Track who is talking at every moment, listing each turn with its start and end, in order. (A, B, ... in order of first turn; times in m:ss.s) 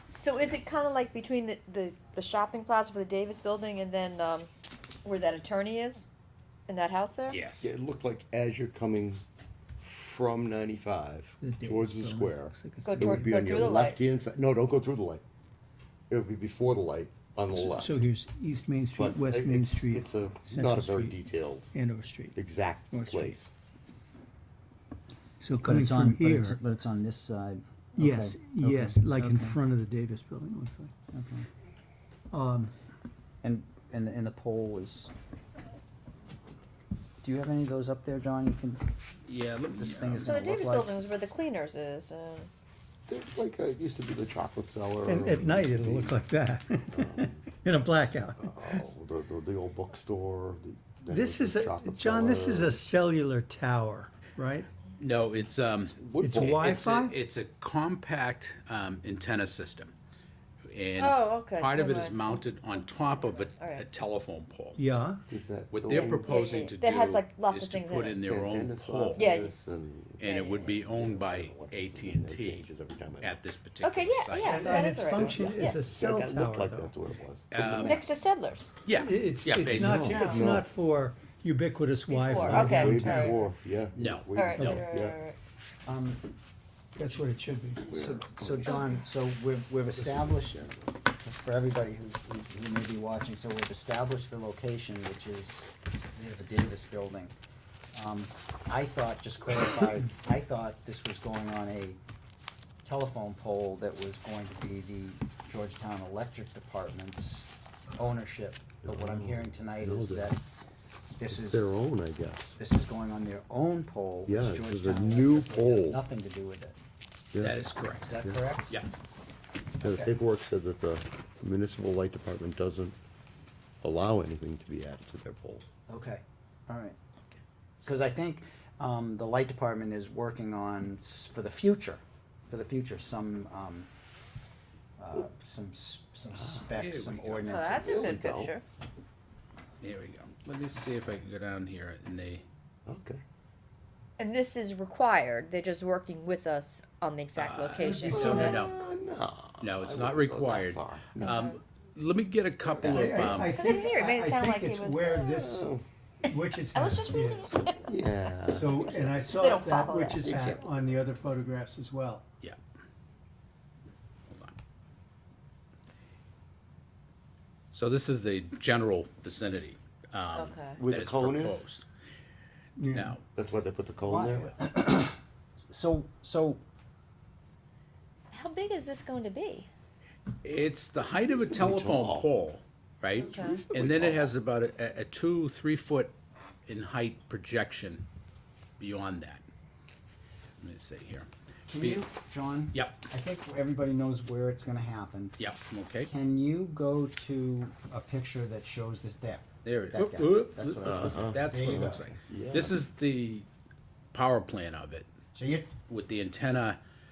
0:00.2-0:04.5 A
0:05.0-0:06.1 A
0:06.7-0:07.4 A
0:07.3-0:07.7 B
0:07.6-0:09.2 C
0:09.8-0:15.2 C
0:11.4-0:13.5 D
0:12.8-0:14.0 A
0:16.1-0:18.0 C
0:17.5-0:22.4 D
0:18.9-0:21.7 C
0:22.4-0:23.5 C
0:22.9-0:23.3 D
0:25.4-0:26.6 D
0:25.6-0:29.6 E
0:28.0-0:30.9 D
0:31.1-0:31.5 E
0:32.3-0:32.7 D
0:33.4-0:35.1 E
0:37.2-0:38.8 E
0:39.3-0:40.4 B
0:39.8-0:41.0 E
0:40.2-0:42.5 A
0:43.1-0:46.2 C
0:45.1-0:48.8 D
0:46.9-0:47.5 C
0:48.4-0:52.8 C
0:51.1-0:54.7 D
0:55.0-0:59.9 B
0:56.0-0:56.7 C
0:56.2-0:57.2 D
1:00.7-1:04.8 B
1:00.9-1:03.8 A
1:04.8-1:05.2 D
1:05.3-1:06.5 C
1:05.7-1:09.5 B
1:06.2-1:08.2 A
1:08.2-1:13.4 C
1:09.2-1:09.5 A
1:10.2-1:12.7 B
1:10.2-1:10.7 A
1:13.2-1:15.0 B
1:13.8-1:15.8 A
1:14.4-1:16.9 D
1:15.2-1:18.1 C
1:17.5-1:18.0 B
1:17.8-1:18.7 A
1:18.8-1:20.0 B
1:18.9-1:23.4 D
1:19.6-1:20.7 C
1:20.0-1:20.5 A
1:22.1-1:23.4 A
1:22.4-1:25.2 C
1:24.0-1:24.4 B
1:24.3-1:25.4 A
1:24.6-1:24.8 D
1:25.8-1:26.2 E
1:27.0-1:27.8 D
1:27.8-1:29.0 C
1:27.9-1:30.6 E
1:30.0-1:30.9 C
1:31.2-1:37.3 E
1:37.9-1:42.0 E
1:42.8-1:50.4 E
1:48.8-1:50.4 C
1:51.2-1:51.7 E
1:51.3-1:52.6 C
1:52.6-1:56.8 E
1:54.3-1:56.0 C
1:57.3-1:57.6 C
1:57.4-1:58.2 B
1:58.0-1:58.8 E
1:58.2-1:58.4 C
1:59.8-2:03.0 C
1:59.8-2:00.1 E
2:03.8-2:05.7 C
2:05.9-2:07.0 E
2:07.8-2:13.9 E
2:15.0-2:18.2 E
2:16.3-2:16.7 C
2:16.8-2:17.7 B
2:17.5-2:18.6 A
2:17.8-2:18.5 C
2:19.8-2:22.4 B
2:22.9-2:23.2 C
2:24.2-2:28.6 A
2:27.3-2:28.8 B
2:27.9-2:28.3 D
2:28.1-2:31.4 C
2:29.6-2:33.6 B
2:31.2-2:31.6 A
2:32.8-2:33.4 C
2:32.8-2:35.7 D
2:33.4-2:35.4 A
2:35.3-2:35.8 C
2:36.2-2:37.5 D
2:36.7-2:37.9 A
2:37.8-2:39.1 C
2:38.5-2:42.2 D
2:39.2-2:40.5 A
2:40.2-2:40.6 C
2:44.3-2:44.6 B
2:47.7-2:51.8 B
2:50.3-2:50.8 A
2:50.8-2:51.6 C
2:52.8-2:53.2 D
2:52.9-2:53.2 B
2:53.4-2:54.6 C
2:54.0-2:55.2 E
2:55.7-2:56.6 E
2:58.3-2:59.7 A
3:00.4-3:08.1 B
3:01.4-3:02.3 C
3:03.2-3:04.3 C
3:03.2-3:03.6 A
3:08.8-3:09.4 B
3:10.6-3:11.3 B
3:11.7-3:15.4 E
3:11.8-3:12.0 B
3:12.7-3:13.0 B
3:15.4-3:16.1 B
3:16.0-3:22.1 E
3:19.6-3:23.5 B
3:20.8-3:22.8 C
3:24.1-3:25.1 B
3:25.3-3:25.7 E
3:25.9-3:26.8 B